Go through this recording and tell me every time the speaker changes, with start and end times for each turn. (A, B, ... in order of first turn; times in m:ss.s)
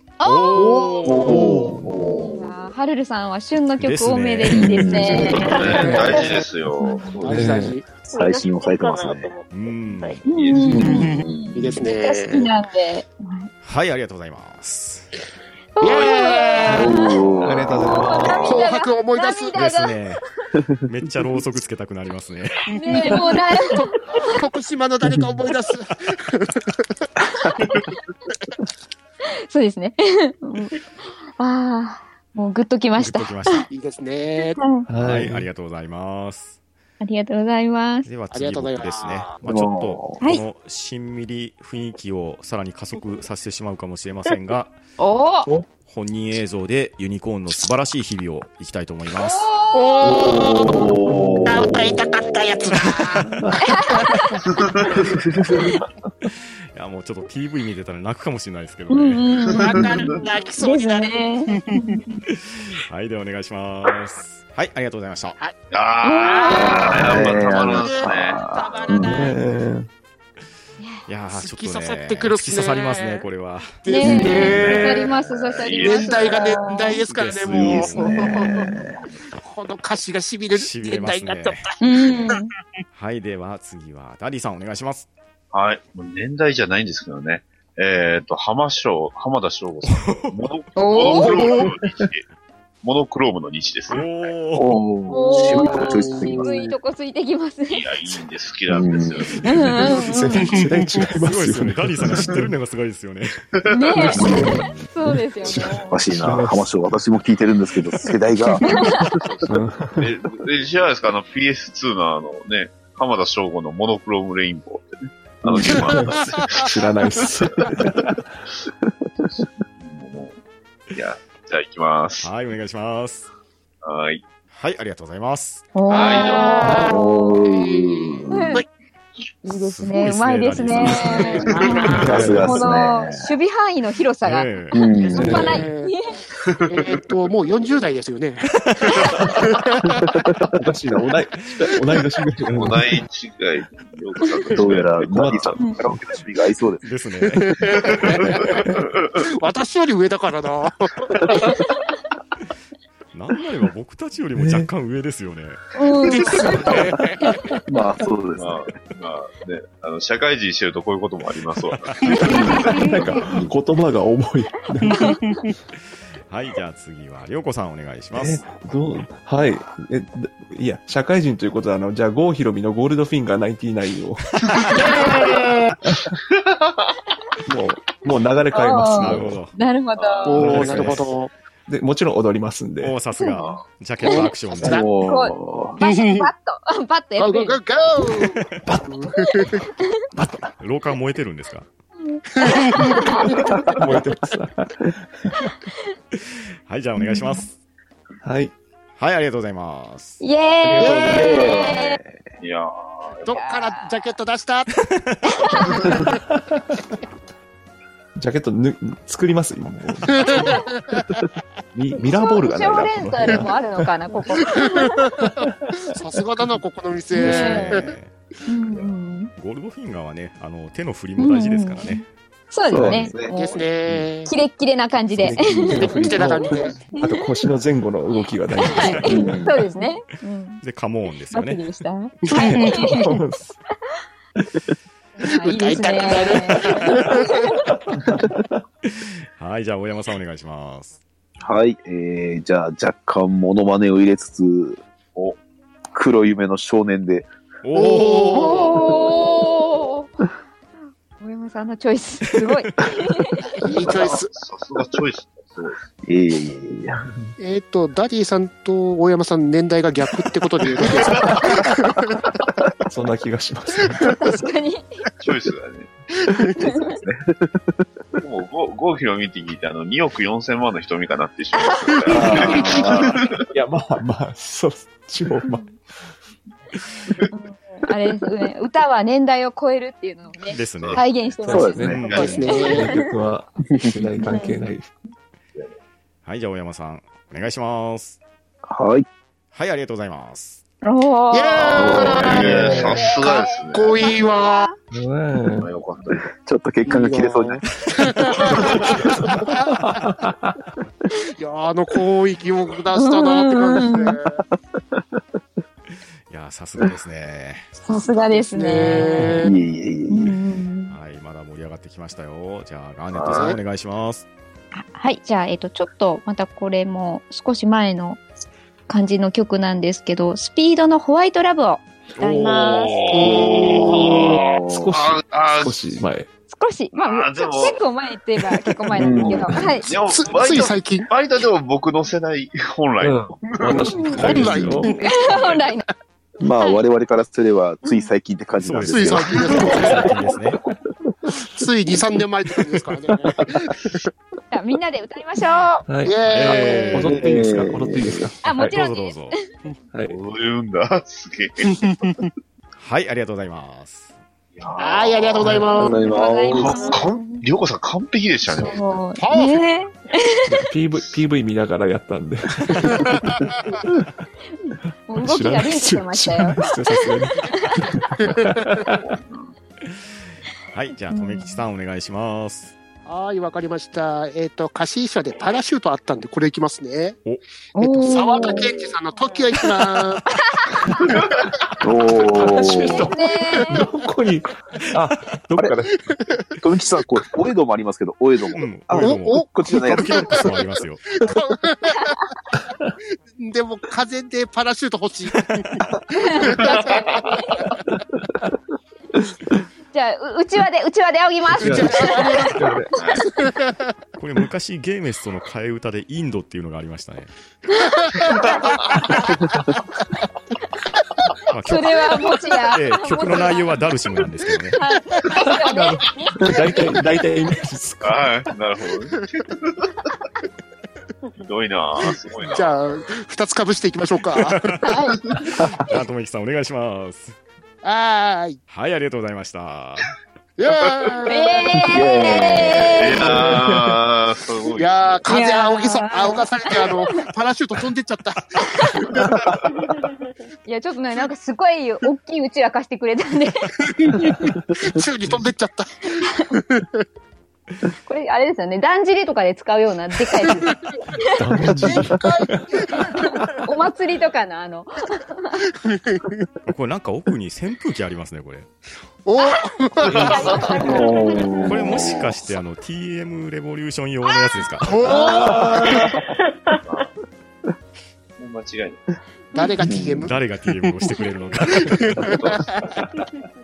0:00.2-0:01.4 A
0:00.2-0:01.3 B
0:01.0-0:02.4 C
0:01.2-0:01.9 D
0:02.3-0:05.6 A
0:03.8-0:05.1 B
0:04.5-0:06.3 C
0:05.2-0:06.4 E
0:05.3-0:07.6 F
0:05.7-0:06.3 G
0:06.8-0:07.2 A
0:07.2-0:07.8 G
0:07.2-0:07.8 D
0:08.0-0:09.3 C
0:08.1-0:10.2 E
0:09.5-0:10.2 B
0:10.2-0:11.0 F
0:10.2-0:13.5 A
0:10.7-0:11.8 C
0:10.9-0:12.5 G
0:13.6-0:15.1 B
0:15.8-0:20.2 A
0:15.8-0:17.0 G
0:16.7-0:18.5 C
0:17.4-0:18.6 D
0:18.4-0:19.6 G
0:19.5-0:20.2 B
0:20.8-0:22.7 B
0:22.7-0:24.2 A
0:22.7-0:27.0 G
0:29.5-0:30.8 A
0:31.4-0:33.7 A
0:33.0-0:33.7 B
0:33.7-0:34.6 G
0:34.6-0:34.9 A
0:34.9-0:35.5 D
0:35.0-0:36.5 B
0:37.0-0:38.1 A
0:38.0-0:44.7 B
0:38.3-0:39.4 G
0:39.4-0:40.2 C
0:45.0-0:45.5 A
0:45.8-0:49.5 B
0:49.1-0:50.3 A
0:49.7-0:50.9 G
0:50.0-0:52.3 C
0:51.1-0:51.5 D
0:51.4-0:53.3 G
0:53.6-0:54.4 A
0:53.9-0:54.2 G
0:54.5-0:54.9 F
0:56.7-0:59.3 B
0:58.9-0:59.8 A
0:59.5-1:02.0 G
1:00.6-1:02.2 A
1:02.3-1:05.4 B
1:05.7-1:08.4 F
1:06.0-1:06.9 A
1:06.3-1:07.1 G
1:06.5-1:09.3 C
1:07.7-1:09.4 G
1:08.9-1:09.9 D
1:11.1-1:13.8 B
1:11.3-1:13.3 G
1:13.8-1:15.1 G
1:13.8-1:17.0 A
1:14.3-1:16.4 F
1:14.8-1:15.6 C
1:15.8-1:18.7 G
1:17.1-1:18.2 B
1:17.5-1:19.0 C
1:18.2-1:18.6 A
1:19.4-1:22.1 G
1:20.5-1:21.7 B
1:21.8-1:22.5 A
1:22.9-1:25.1 B
1:25.5-1:32.2 F
1:29.9-1:30.4 B
1:30.8-1:31.4 A
1:31.3-1:31.7 G
1:32.8-1:34.0 F
1:33.9-1:34.8 B
1:34.5-1:36.7 C
1:35.1-1:37.8 A
1:35.3-1:36.5 G
1:37.7-1:39.8 F
1:38.7-1:39.3 C
1:39.4-1:42.5 D
1:39.4-1:40.6 A
1:40.5-1:41.0 G
1:41.1-1:43.9 B
1:43.6-1:44.2 F
1:43.7-1:46.0 A
1:44.0-1:46.7 D
1:44.2-1:44.6 C
1:45.9-1:49.0 C
1:48.6-1:49.0 A
1:49.1-1:57.8 F
1:49.4-1:50.1 D
1:55.4-1:55.9 C
1:55.6-1:58.3 D
1:59.8-2:00.3 F
2:00.9-2:02.3 F
2:02.2-2:03.3 B
2:03.8-2:04.2 F
2:04.5-2:05.7 B
2:05.7-2:06.8 A
2:05.9-2:08.6 G
2:05.9-2:06.9 F
2:06.7-2:08.6 C
2:08.3-2:08.6 A
2:09.4-2:16.1 A
2:09.5-2:11.8 B
2:10.9-2:12.3 G
2:12.0-2:12.5 D
2:12.0-2:13.3 C
2:14.2-2:14.8 B
2:14.7-2:15.6 C
2:15.1-2:15.9 G
2:15.1-2:15.6 D
2:16.5-2:17.0 F
2:16.6-2:20.0 G
2:18.5-2:19.1 B
2:20.1-2:20.6 C
2:20.5-2:23.0 D
2:22.5-2:25.6 F
2:24.5-2:26.8 C
2:25.0-2:26.0 D
2:26.8-2:28.4 B
2:27.2-2:28.4 G
2:27.7-2:29.1 F
2:28.4-2:28.8 D
2:29.2-2:31.5 G
2:33.1-2:35.6 B
2:34.3-2:34.7 D
2:35.7-2:37.4 A
2:36.0-2:37.3 G
2:37.7-2:38.7 C
2:38.4-2:42.9 F
2:41.7-2:42.4 B
2:42.1-2:42.7 G
2:42.3-2:45.1 D
2:44.9-2:45.5 G
2:46.3-2:48.5 B
2:48.1-2:54.8 D
2:54.6-2:55.8 G
2:55.8-2:56.1 D
2:57.5-2:59.4 D
2:58.5-3:00.9 A
2:58.9-2:59.5 B
3:00.0-3:00.4 F
3:00.2-3:01.3 G
3:00.4-3:01.0 D
3:00.4-3:01.1 B
3:01.7-3:03.0 D
3:02.8-3:04.8 B
3:03.2-3:03.5 A
3:03.4-3:03.6 F
3:04.0-3:04.9 G
3:04.6-3:05.8 C
3:04.6-3:07.6 A
3:05.8-3:06.3 G
3:07.2-3:09.6 G
3:08.1-3:08.6 B
3:08.7-3:09.1 D
3:09.2-3:09.9 A
3:10.1-3:10.6 D
3:10.6-3:11.7 B
3:12.0-3:13.7 A
3:12.4-3:13.3 G
3:13.7-3:15.0 D
3:16.1-3:17.5 B
3:17.0-3:17.5 A
3:18.2-3:18.5 D
3:19.0-3:20.2 B
3:20.2-3:22.0 A
3:20.7-3:22.2 C
3:20.7-3:21.3 D
3:22.4-3:23.2 F
3:23.2-3:24.7 G
3:23.3-3:23.9 A
3:24.8-3:25.7 B
3:25.2-3:26.1 A
3:25.6-3:26.1 G
3:25.9-3:26.6 D
3:28.2-3:30.6 D
3:30.2-3:31.0 G
3:31.7-3:33.5 D
3:32.0-3:35.1 A
3:34.4-3:35.3 G
3:35.9-3:37.8 G
3:37.1-3:37.9 A
3:37.2-3:38.1 B
3:38.5-3:39.3 A
3:39.4-3:42.1 B
3:41.2-3:43.6 A
3:42.7-3:43.6 C
3:42.7-3:43.1 D
3:43.3-3:44.3 G
3:44.2-3:46.2 A
3:45.2-3:49.3 D
3:46.0-3:46.9 G
3:48.6-3:50.6 A
3:48.7-3:49.3 B
3:49.0-3:49.6 C
3:50.6-3:51.6 B
3:51.3-3:53.1 A
3:52.3-3:53.2 G
3:52.9-3:53.5 D
3:55.2-3:57.5 A
3:55.3-3:57.4 G
3:58.8-4:01.0 B
4:01.4-4:04.8 C
4:05.9-4:07.3 C
4:07.6-4:09.0 B
4:07.8-4:08.9 G
4:08.3-4:10.1 A
4:11.2-4:13.5 A
4:12.3-4:12.9 B
4:13.6-4:14.4 G
4:13.8-4:15.8 F
4:16.0-4:17.0 C
4:17.4-4:22.2 G
4:20.8-4:21.6 F
4:21.5-4:21.8 C
4:22.9-4:24.1 D
4:24.0-4:24.8 A
4:25.2-4:25.9 F
4:26.6-4:27.7 C
4:28.2-4:33.4 F
4:31.5-4:32.6 A
4:32.1-4:33.2 C
4:32.1-4:32.5 G
4:33.5-4:35.6 D
4:35.4-4:35.7 A
4:37.3-4:43.0 A
4:40.4-4:41.2 B
4:41.4-4:44.9 D
4:41.5-4:42.0 C
4:41.7-4:42.4 B
4:42.1-4:42.5 F
4:42.1-4:42.9 G
4:44.2-4:44.6 A
4:46.2-4:48.2 B
4:48.7-4:49.0 C
4:49.5-4:50.6 B
4:50.8-4:52.2 A
4:51.3-4:53.0 G
4:51.6-4:54.0 F
4:51.7-4:53.0 C
4:52.7-4:54.7 A
4:53.7-4:54.7 G
4:54.9-4:55.7 D
4:55.6-4:56.2 F
4:56.1-4:57.6 C
4:56.9-4:59.8 G
4:57.7-4:58.5 B
4:59.8-5:00.6 D
5:01.4-5:04.4 G
5:02.9-5:04.2 A
5:06.3-5:07.7 B
5:07.8-5:09.4 A
5:08.5-5:09.5 G
5:09.4-5:10.4 C
5:10.1-5:11.0 A
5:10.9-5:14.3 B
5:13.1-5:13.5 F
5:13.3-5:13.6 G
5:14.7-5:18.2 A
5:18.9-5:23.2 A
5:22.2-5:23.0 B
5:22.5-5:25.8 F
5:23.1-5:24.4 G
5:23.2-5:24.9 C
5:24.6-5:26.3 D
5:26.5-5:29.9 A
5:26.9-5:27.8 F
5:29.0-5:29.6 C
5:29.0-5:29.8 D
5:29.8-5:34.5 F
5:30.1-5:31.1 G
5:33.0-5:35.0 D
5:34.0-5:35.6 G
5:35.0-5:35.9 A
5:36.4-5:40.0 C
5:38.6-5:40.6 B
5:38.9-5:40.2 G
5:41.5-5:44.1 G
5:44.5-5:45.8 A
5:45.8-5:48.8 D
5:46.0-5:47.1 G
5:46.2-5:47.2 B
5:47.1-5:48.3 C
5:48.4-5:49.3 A
5:48.5-5:49.4 B
5:49.9-5:50.2 D
5:50.0-5:51.8 F
5:51.7-5:52.3 G
5:52.8-5:54.1 B
5:54.6-5:55.9 F
5:54.8-5:56.0 G
5:55.7-5:56.8 C
5:55.8-5:57.4 A
5:56.5-5:58.8 F
5:58.5-6:00.6 A
5:59.2-5:59.6 G
6:00.4-6:03.4 D
6:04.6-6:07.8 A
6:05.2-6:09.0 D
6:08.2-6:08.8 G
6:09.0-6:09.5 F
6:10.7-6:12.7 B
6:11.1-6:11.6 A
6:13.0-6:17.2 G
6:17.7-6:18.7 A
6:18.0-6:20.3 G
6:18.4-6:18.9 F
6:20.3-6:21.0 A
6:21.8-6:23.1 C
6:22.2-6:26.0 D
6:23.1-6:23.8 A
6:26.6-6:30.6 C
6:28.5-6:31.4 B
6:28.9-6:32.3 G
6:33.4-6:35.8 G
6:35.4-6:36.0 B
6:36.1-6:37.6 A
6:36.4-6:37.6 G
6:39.9-6:42.6 A
6:41.6-6:43.0 D
6:41.6-6:42.7 G
6:42.9-6:43.2 F
6:43.3-6:43.8 G
6:44.2-6:47.3 B
6:47.8-6:48.4 A
6:48.0-6:49.2 G
6:48.3-6:48.9 F
6:51.5-6:52.1 B
6:51.6-6:53.8 A
6:52.7-6:54.8 B
6:54.7-6:57.2 A
6:55.4-6:58.3 D
6:58.0-6:59.9 F
7:01.4-7:02.7 F
7:02.5-7:04.7 G
7:04.3-7:04.9 B
7:04.8-7:05.5 A
7:05.8-7:07.4 B
7:07.8-7:08.6 G
7:08.7-7:10.1 B
7:10.6-7:11.8 G
7:11.2-7:13.3 A
7:11.9-7:14.0 C
7:13.0-7:15.2 F
7:14.8-7:19.3 G
7:15.3-7:17.1 A
7:18.8-7:19.0 A
7:20.6-7:23.7 A
7:23.8-7:26.9 G
7:26.2-7:26.6 A
7:28.1-7:31.4 A
7:30.5-7:30.8 G
7:31.3-7:32.2 D
7:31.8-7:33.6 G
7:33.1-7:35.6 A
7:35.8-7:36.3 G
7:36.6-7:38.7 B
7:39.2-7:41.0 G
7:40.0-7:40.8 F
7:40.1-7:42.0 A
7:40.8-7:42.4 C
7:41.7-7:45.0 B
7:44.8-7:46.2 G
7:45.1-7:46.1 F
7:45.4-7:45.8 D
7:46.7-7:47.1 E
7:48.4-7:49.0 F
7:49.5-7:51.1 G
7:49.8-7:50.3 C
7:50.2-7:52.4 B
7:51.8-7:53.0 G
7:52.2-7:53.0 F